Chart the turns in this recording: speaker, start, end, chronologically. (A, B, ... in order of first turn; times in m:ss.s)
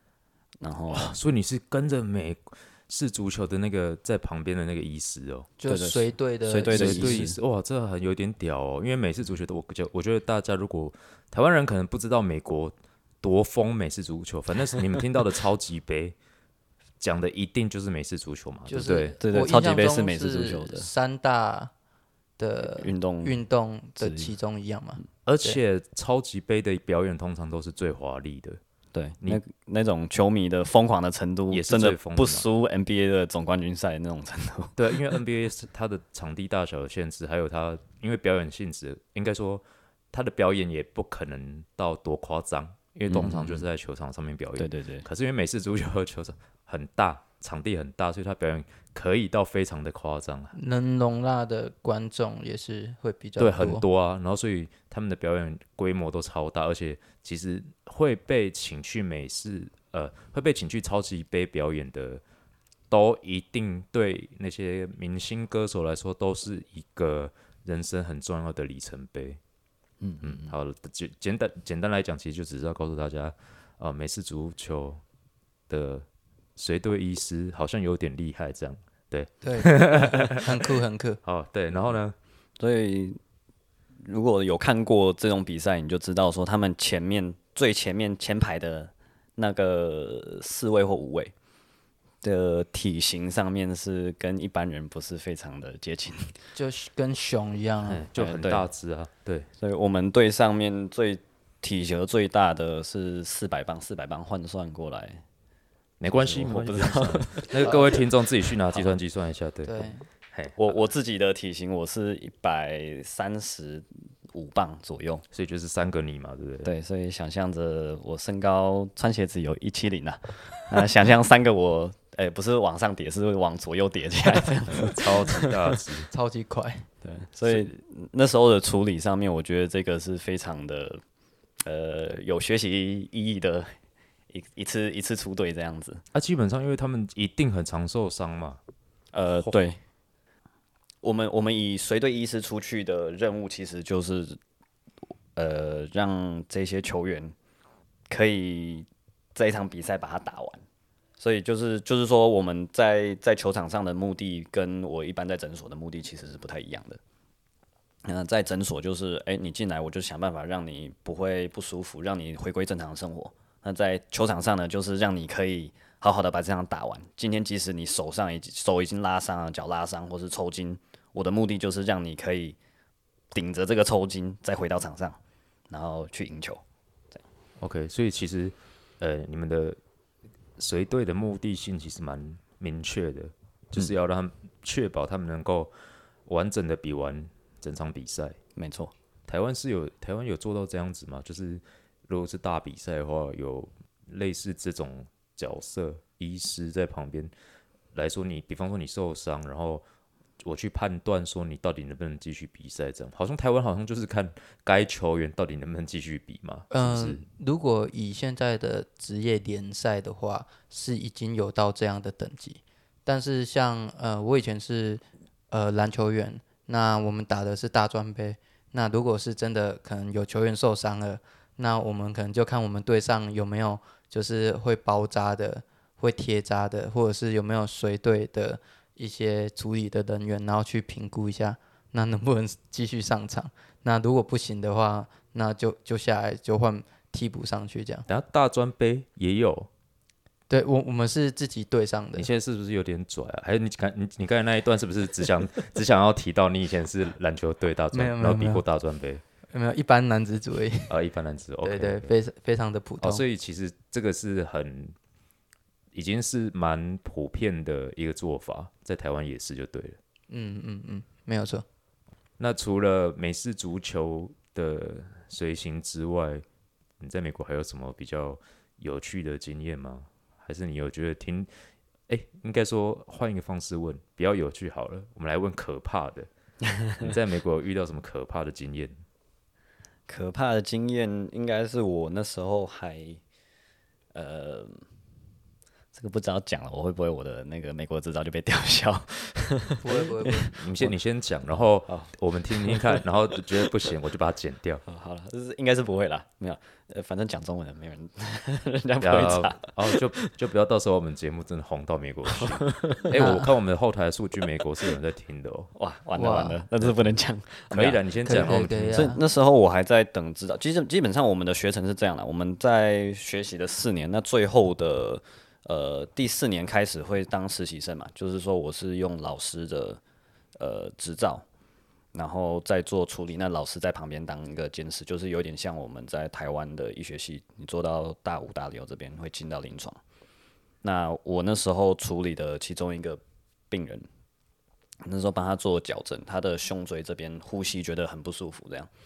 0:00.6-0:01.1 A
0:00.9-0:05.5 B
0:05.6-0:07.2 C
0:05.6-0:07.4 A
0:06.7-0:16.2 B
0:17.0-0:19.2 B
0:18.7-0:21.7 C
0:19.2-0:20.9 A
0:22.4-0:25.6 C
0:22.6-0:23.4 A
0:24.0-0:24.3 A
0:25.2-0:28.6 B
0:28.9-0:34.9 A
0:31.5-0:32.5 B
0:34.8-0:50.5 B
0:43.1-0:43.6 A
0:44.6-0:45.0 A
0:50.5-0:53.8 C
0:53.4-1:02.2 B
1:02.9-1:09.4 B
1:10.0-1:10.5 A
1:10.2-1:15.0 B
1:15.7-1:20.7 B
1:19.4-1:21.2 C
1:21.2-1:22.1 B
1:22.6-1:23.2 A
1:24.0-1:31.3 A
1:32.2-1:36.4 A
1:36.5-1:38.0 C
1:37.8-1:39.5 B
1:38.2-1:38.6 A
1:39.6-1:45.2 A
1:46.0-1:50.7 B
1:46.1-1:48.0 A
1:48.7-1:48.9 A
1:49.6-1:50.0 C
1:50.6-1:55.2 A
1:55.3-1:56.7 B
1:56.6-2:05.5 A
2:04.7-2:06.1 B
2:06.1-2:06.9 C
2:07.0-2:11.0 A
2:07.4-2:07.8 B
2:11.6-2:13.8 A
2:14.3-2:16.0 A
2:16.1-2:18.6 B
2:19.1-2:19.8 A
2:21.0-2:24.4 A
2:25.4-2:27.4 A
2:28.1-2:30.6 A
2:31.2-2:37.0 A
2:38.0-2:52.6 A
2:53.3-2:55.2 A
2:55.7-2:56.6 A
2:57.6-2:59.8 B
3:00.6-3:05.8 B
3:06.2-3:08.4 B
3:08.6-3:08.9 A
3:09.3-3:17.3 B
3:17.9-3:19.8 B
3:20.4-3:27.2 B
3:26.7-3:58.0 C
3:58.1-3:59.7 B
4:00.5-4:02.3 C
4:02.1-4:09.2 B
4:07.9-4:08.6 C
4:09.5-4:11.0 C
4:10.9-4:12.1 B
4:11.6-4:13.2 C
4:13.0-4:15.0 B
4:15.9-4:20.0 B
4:20.3-4:21.6 C
4:22.4-4:26.4 B
4:27.0-4:31.5 B
4:32.1-4:36.3 B
4:37.0-4:39.0 B
4:40.1-4:43.2 A
4:44.1-4:44.8 A
4:45.9-4:50.9 A
4:49.8-4:50.5 C
4:50.5-4:54.8 B
4:51.9-4:53.0 A
4:54.8-5:00.3 A
4:59.0-5:05.7 B
5:02.4-5:03.1 A
5:03.2-5:03.5 C
5:05.8-5:08.0 A
5:06.2-5:06.6 C
5:07.7-5:09.2 B
5:08.2-5:09.2 C
5:08.9-5:20.0 A
5:20.6-5:21.4 A
5:22.1-5:30.0 A
5:30.8-5:34.0 A
5:35.0-5:38.9 A